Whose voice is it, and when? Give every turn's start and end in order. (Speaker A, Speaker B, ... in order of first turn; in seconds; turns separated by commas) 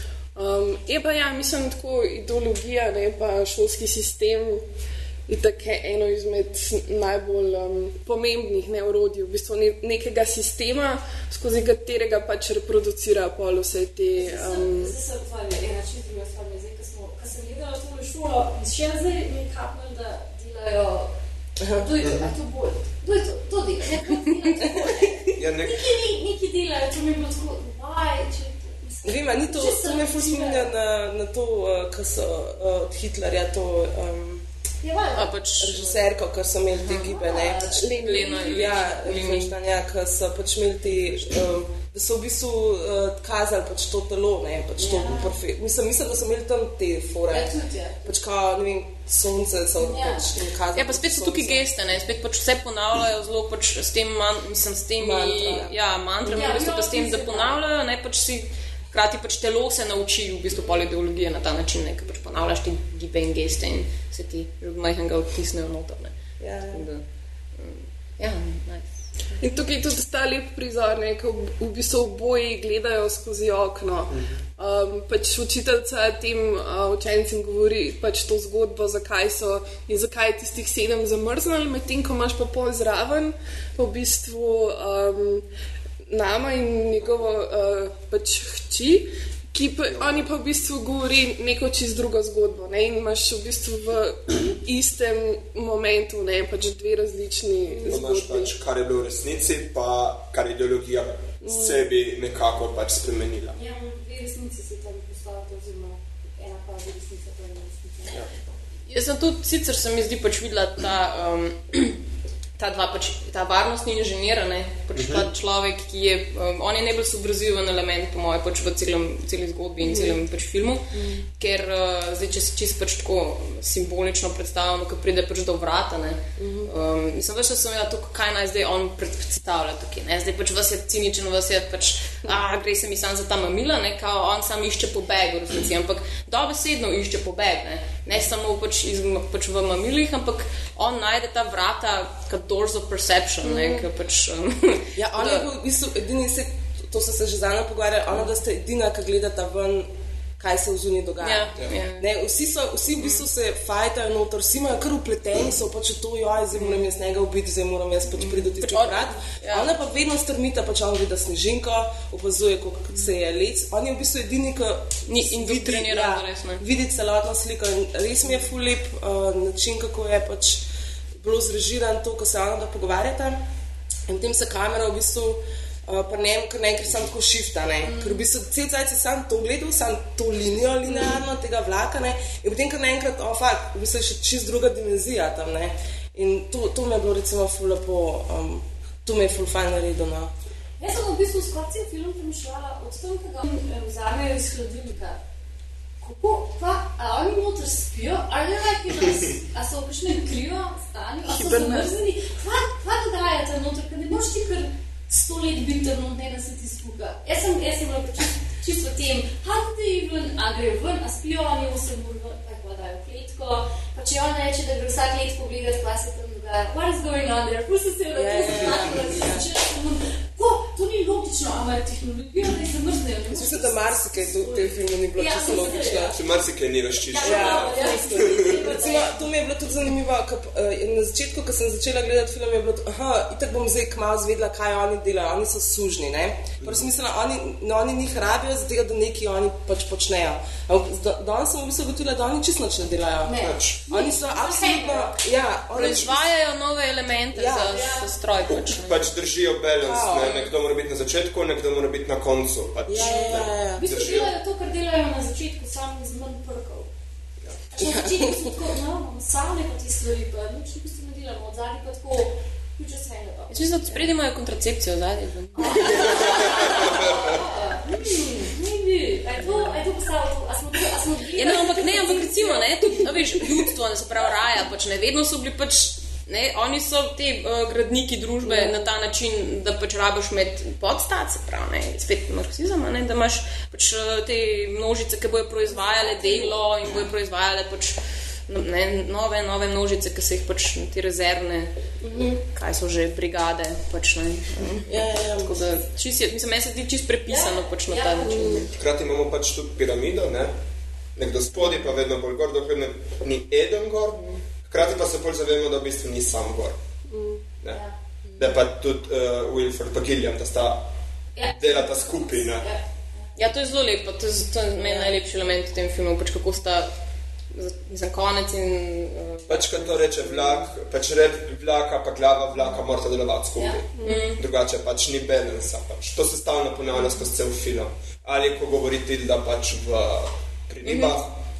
Speaker A: 0.4-4.6, Speaker A: 5.3-14.9, Speaker B: 14.2-21.1, Speaker C: 21.6-21.9, Speaker B: 21.7-30.7, Speaker D: 22.0-22.3, Speaker D: 25.4-25.9, Speaker C: 29.1-34.5, Speaker B: 34.8-35.3, Speaker E: 35.1-36.0, Speaker C: 35.6-51.6, Speaker E: 36.8-37.1, Speaker B: 37.0-38.9, Speaker A: 37.8-38.4, Speaker E: 37.9-39.5, Speaker B: 44.8-45.3, Speaker B: 47.3-48.0, Speaker B: 49.8-50.3, Speaker E: 50.8-66.2, Speaker C: 55.0-55.8, Speaker B: 56.2-57.6, Speaker C: 66.4-66.8, Speaker E: 66.7-67.0, Speaker E: 67.6-69.0, Speaker A: 69.4-85.5, Speaker A: 86.1-98.5, Speaker D: 89.9-90.3, Speaker D: 97.9-103.6, Speaker A: 101.4-101.8, Speaker B: 103.5-108.2, Speaker E: 108.9-112.0, Speaker E: 112.6-120.8, Speaker D: 115.0-115.3, Speaker C: 119.8-120.2, Speaker C: 120.9-121.3, Speaker E: 121.4-145.5, Speaker C: 126.4-126.7, Speaker C: 143.4-143.9, Speaker C: 145.0-170.6, Speaker E: 151.2-152.1, Speaker E: 153.0-153.3, Speaker E: 156.6-156.8, Speaker E: 158.1-159.7, Speaker E: 165.1-166.6, Speaker C: 171.2-173.4, Speaker C: 174.1-190.3, Speaker B: 177.9-178.2, Speaker B: 190.8-195.2, Speaker B: 196.0-226.2, Speaker A: 201.3-201.9, Speaker C: 218.2-219.5, Speaker C: 223.3-226.2, Speaker D: 226.1-228.8, Speaker B: 227.0-229.2, Speaker C: 227.2-246.3, Speaker D: 236.6-236.9, Speaker B: 243.3-245.2, Speaker D: 243.4-243.8, Speaker E: 245.7-249.1, Speaker C: 247.3-247.8, Speaker B: 247.6-248.1, Speaker D: 248.4-254.3, Speaker C: 249.8-250.3, Speaker E: 250.2-250.5, Speaker C: 252.9-254.0, Speaker B: 253.8-256.9, Speaker B: 257.7-264.0, Speaker C: 257.9-258.1, Speaker E: 263.5-266.8, Speaker B: 265.6-273.2, Speaker D: 265.9-267.5, Speaker E: 269.4-269.8, Speaker E: 271.4-291.7, Speaker C: 278.4-278.8, Speaker B: 285.8-286.5, Speaker C: 292.0-292.4, Speaker E: 292.5-298.6, Speaker C: 294.9-295.9, Speaker B: 297.3-298.7, Speaker A: 298.3-298.7, Speaker D: 298.8-300.5, Speaker D: 301.2-306.8, Speaker A: 307.1-307.4, Speaker C: 308.3-308.5, Speaker D: 308.4-310.9, Speaker B: 311.4-313.3, Speaker D: 311.5-312.7, Speaker E: 313.4-316.9, Speaker C: 314.8-315.1, Speaker E: 317.5-320.7, Speaker D: 319.5-331.3, Speaker A: 324.0-324.2, Speaker E: 324.0-324.4, Speaker E: 330.9-331.2